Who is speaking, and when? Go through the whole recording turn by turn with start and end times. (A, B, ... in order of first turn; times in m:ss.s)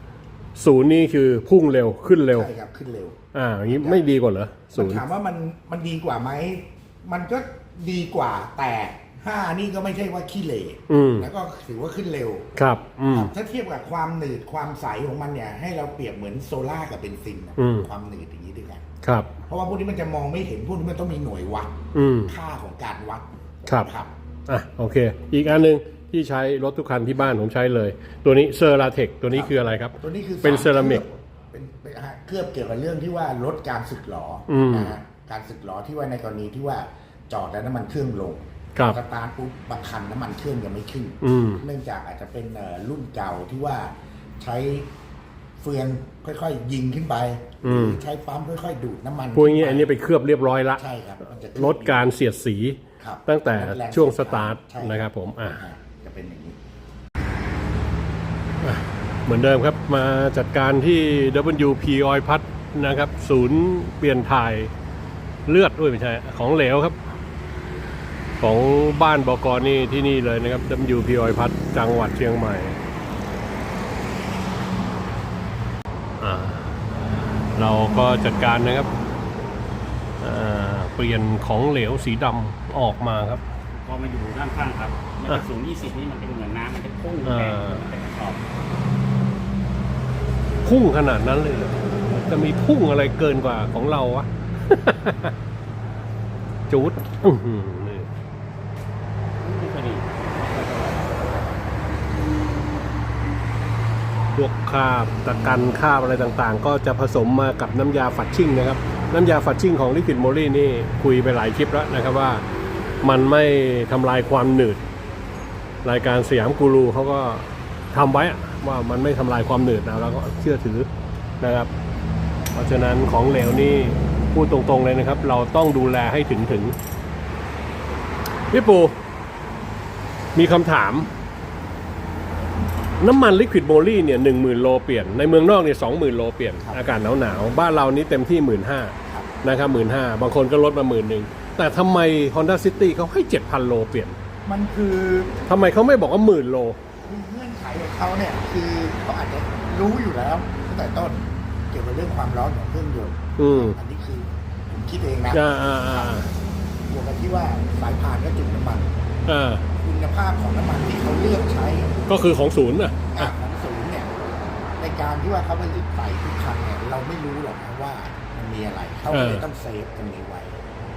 0:00.6-0:02.5 A
0:02.3-0:03.2 B
0:03.3-0:05.0 A
0:03.7-0:04.2 B
0:04.7-0:12.6 B
0:10.9-0:11.3 A
0:12.6-0:13.3 A
0:13.1-0:21.7 B
0:17.6-0:17.9 A
0:19.0-0:19.3 A
0:21.9-0:22.3 A
0:22.3-0:24.1 B
0:24.5-0:31.0 A
0:29.3-0:44.9 B
0:34.5-0:35.0 A
0:41.2-0:41.6 A
0:45.6-0:49.9 B
0:47.6-0:48.0 A
0:49.4-0:50.8 A
0:50.8-0:52.1 B
0:51.6-0:55.6 A
0:53.0-0:56.6 B
0:58.6-1:04.7 A
1:05.5-1:07.0 A
1:08.4-1:12.8 A
1:16.2-1:18.9 A
1:20.2-1:23.4 A
1:23.7-1:28.4 C
1:27.2-1:27.8 A
1:30.6-1:35.3 A
1:36.7-1:38.1 A
1:39.4-1:41.6 C
1:44.4-1:52.4 A
1:53.0-1:54.8 A
1:55.8-2:00.9 A
2:01.4-2:01.7 A
2:02.6-2:06.8 A
2:08.5-2:09.0 A
2:10.4-2:11.1 A
2:13.0-2:24.2 A
2:24.4-2:25.4 B
2:25.5-2:26.8 A
2:27.0-2:36.3 B
2:33.4-2:33.8 A
2:35.3-2:36.3 A
2:36.9-2:39.0 B
2:39.3-2:39.7 A
2:39.8-2:42.1 B
2:42.1-2:43.4 A
2:43.1-2:50.6 B
2:49.1-2:49.5 A